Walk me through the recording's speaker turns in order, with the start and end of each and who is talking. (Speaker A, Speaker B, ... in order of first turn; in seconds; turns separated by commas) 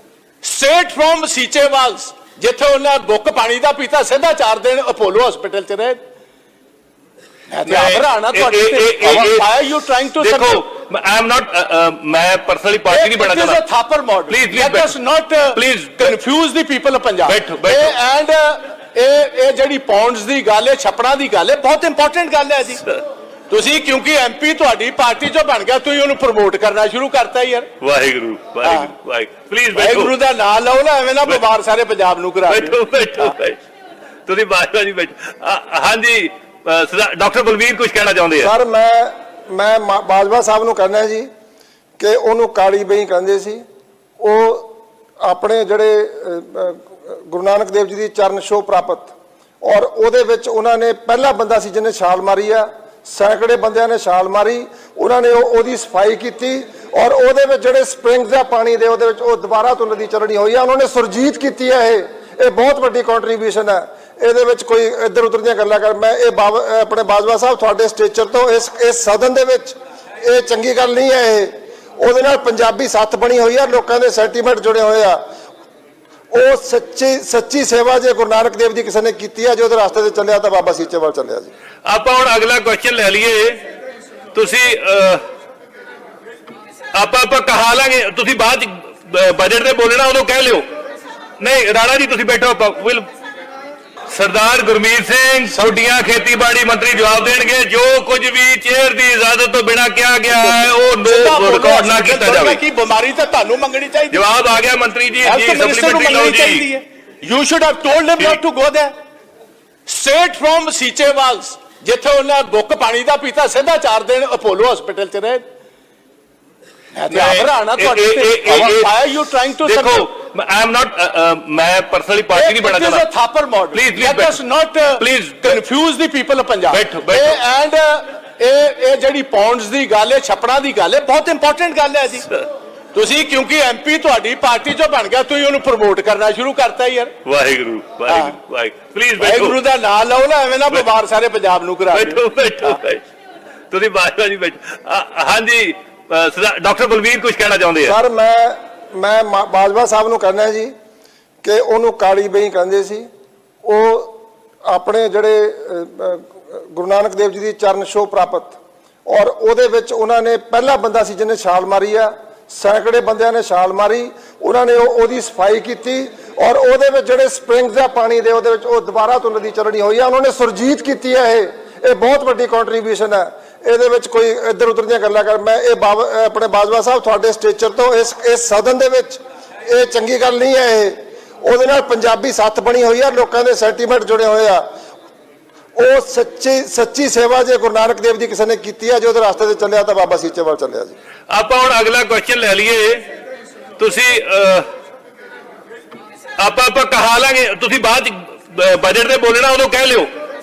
Speaker A: 0.4-6.0, Speaker A: 7.5-10.6, Speaker B: 7.7-13.6, Speaker A: 12.9-22.8, Speaker B: 14.3-14.9, Speaker B: 15.5-16.2, Speaker B: 17.2-17.9, Speaker A: 23.5-27.7, Speaker B: 27.8-30.1, Speaker A: 28.6-28.9, Speaker A: 29.7-33.3, Speaker B: 32.5-33.6, Speaker B: 34.3-38.5, Speaker C: 38.4-41.3, Speaker C: 42.0-43.6, Speaker C: 44.2-75.2, Speaker C: 76.3-81.5, Speaker B: 81.9-83.6, Speaker B: 84.3-85.2, Speaker B: 86.9-90.7, Speaker B: 91.4-93.1, Speaker B: 94.1-102.6, Speaker A: 100.3-104.2, Speaker B: 104.1-106.7, Speaker A: 105.2-108.9, Speaker A: 109.9-115.4, Speaker A: 117.0-120.1, Speaker B: 117.1-118.9, Speaker B: 119.6-123.0, Speaker A: 122.3-132.3, Speaker B: 123.7-124.4, Speaker B: 125.0-125.6, Speaker B: 126.7-127.4, Speaker A: 132.9-137.1, Speaker B: 137.2-139.6, Speaker A: 138.1-138.4, Speaker A: 139.2-142.8, Speaker B: 141.9-143.0, Speaker B: 143.7-148.0, Speaker C: 147.8-150.7, Speaker C: 151.4-153.1, Speaker C: 153.6-154.2, Speaker C: 154.7-158.6, Speaker C: 159.1-184.7, Speaker C: 185.8-190.9, Speaker B: 191.3-193.1, Speaker B: 193.8-194.7, Speaker B: 196.4-200.1